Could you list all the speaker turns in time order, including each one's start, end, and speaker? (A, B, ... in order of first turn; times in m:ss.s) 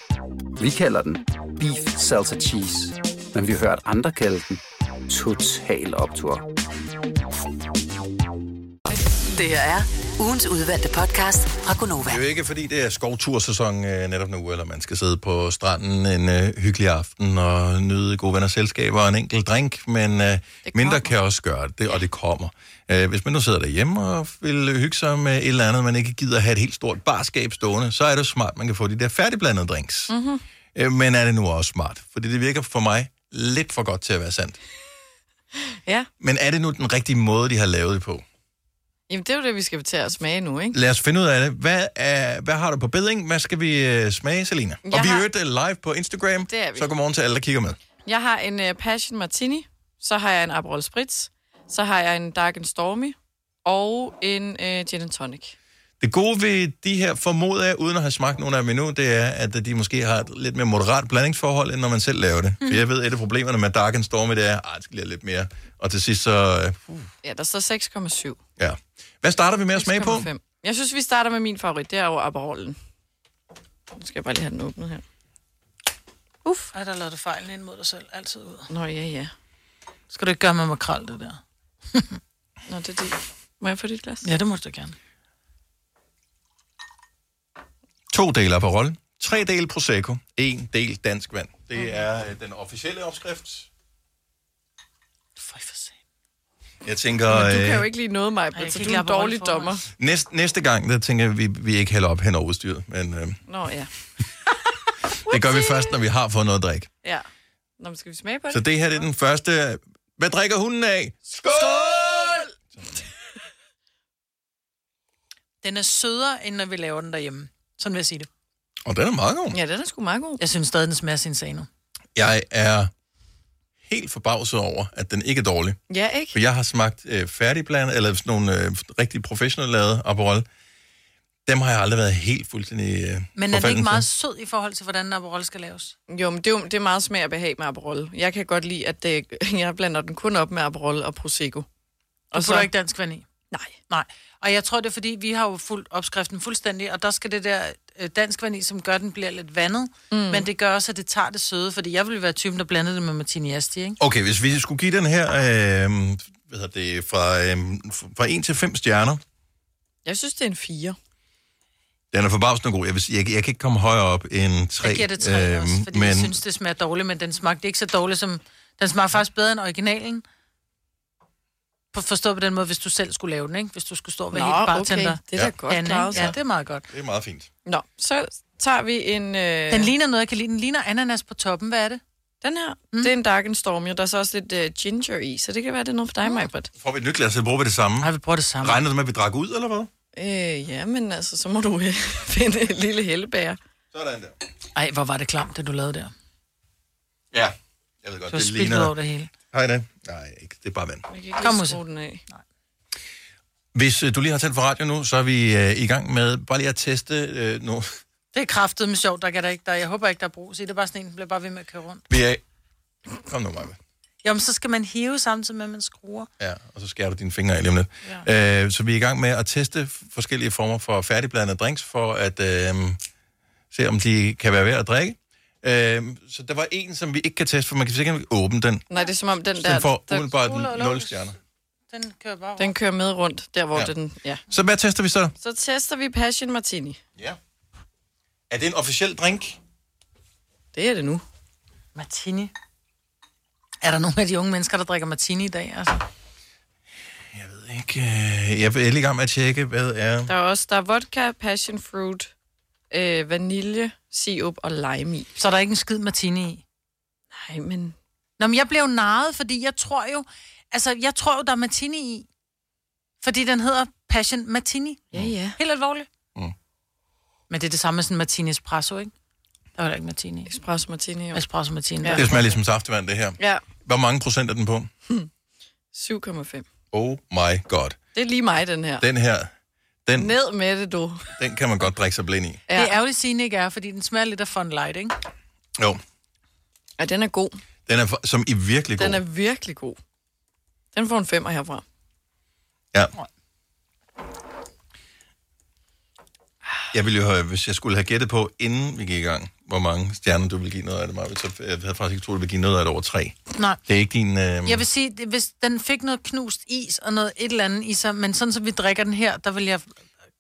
0:00.6-0:06.4 A
0:09.3-0:12.2 B
0:12.1-0:30.1 C
0:20.6-0:21.1 D
0:30.1-0:30.4 D
0:30.8-0:34.6 C
0:36.2-0:38.2 C
0:39.1-0:40.8 D
0:40.7-0:47.8 C
0:44.8-0:45.2 D
0:46.5-0:46.9 D
0:48.1-0:55.6 D
0:56.0-1:07.1 C
1:07.2-1:08.4 D
1:08.6-1:10.3 C
1:09.7-1:12.8 D
1:13.9-1:15.0 D
1:16.4-1:16.7 D
1:16.7-1:18.7 E
1:18.7-1:19.3 D
1:20.1-1:21.4 E
1:22.7-1:24.2 D
1:24.2-1:25.0 E
1:28.1-1:33.7 C
1:35.4-1:36.0 E
1:36.8-1:37.9 C
1:37.3-1:39.8 D
1:38.5-1:39.7 E
1:40.0-1:43.4 C
1:43.5-1:43.9 D
1:45.2-1:46.9 C
1:47.8-1:48.6 D
1:48.5-1:52.9 C
1:51.5-1:52.3 D
1:55.6-1:58.3 E
1:58.8-1:59.6 C
1:59.5-2:00.4 D
2:00.4-2:01.7 E
2:02.1-2:02.9 C
2:03.8-2:05.8 C
2:05.9-2:06.4 D
2:06.3-2:10.5 C
2:11.4-2:14.1 C
2:13.4-2:15.9 E
2:16.1-2:21.6 D
2:22.3-2:22.7 D
2:22.3-2:23.2 E
2:23.9-2:34.0 E
2:30.1-2:30.5 D
2:34.0-2:39.2 C
2:40.1-2:41.0 D
2:42.1-2:46.4 C
2:44.8-2:50.2 E
2:51.9-2:56.8 E
2:54.3-2:56.3 D
2:56.1-2:56.4 C
2:56.9-2:57.5 C
2:57.6-2:59.9 D
2:59.7-3:02.0 E
3:02.4-3:06.7 D
3:06.8-3:08.1 C
3:08.0-3:08.8 E
3:08.6-3:09.9 C
3:10.1-3:13.6 D
3:13.9-3:14.3 C
3:14.8-3:16.1 E
3:17.3-3:18.9 C
3:18.3-3:19.3 E
3:19.5-3:21.1 C
3:21.1-3:22.2 D
3:21.4-3:22.4 E
3:23.7-3:28.0 C
3:28.3-3:32.0 E
3:32.1-3:32.4 C
3:33.2-3:33.8 C
3:34.2-3:36.3 E
3:36.4-3:43.0 C
3:43.7-3:48.8 C
3:48.9-3:50.3 D
3:49.6-3:51.4 C
3:50.3-3:51.3 E
3:51.9-3:52.8 E
3:52.6-3:54.4 D
3:54.5-3:55.3 C
3:55.4-3:57.0 D
3:58.5-3:59.6 C
4:00.7-4:01.2 D
4:02.0-4:02.5 E
4:03.8-4:06.0 E
4:07.3-4:10.3 C
4:10.3-4:12.3 D
4:12.9-4:15.3 D
4:15.4-4:16.6 E
4:17.3-4:17.9 D
4:18.4-4:22.3 E
4:23.2-4:25.0 E
4:25.1-4:25.6 D
4:25.6-4:26.1 E
4:27.5-4:29.1 E
4:29.8-4:30.5 E
4:30.5-4:31.4 D
4:31.3-4:32.6 E
4:32.0-4:32.3 D
4:32.1-4:34.9 C
4:33.4-4:33.6 D
4:35.9-4:36.7 D
4:36.9-4:38.0 C
4:38.1-4:39.0 D
4:39.0-4:39.5 C
4:40.1-4:40.3 C
4:40.2-4:41.3 D
4:41.4-4:42.6 C
4:42.7-4:43.0 D
4:42.7-4:45.1 E
4:47.0-4:47.6 D
4:47.8-4:49.2 C
4:49.0-4:50.0 D
4:50.9-4:51.8 D
4:56.9-5:04.8 C
5:04.6-5:09.9 E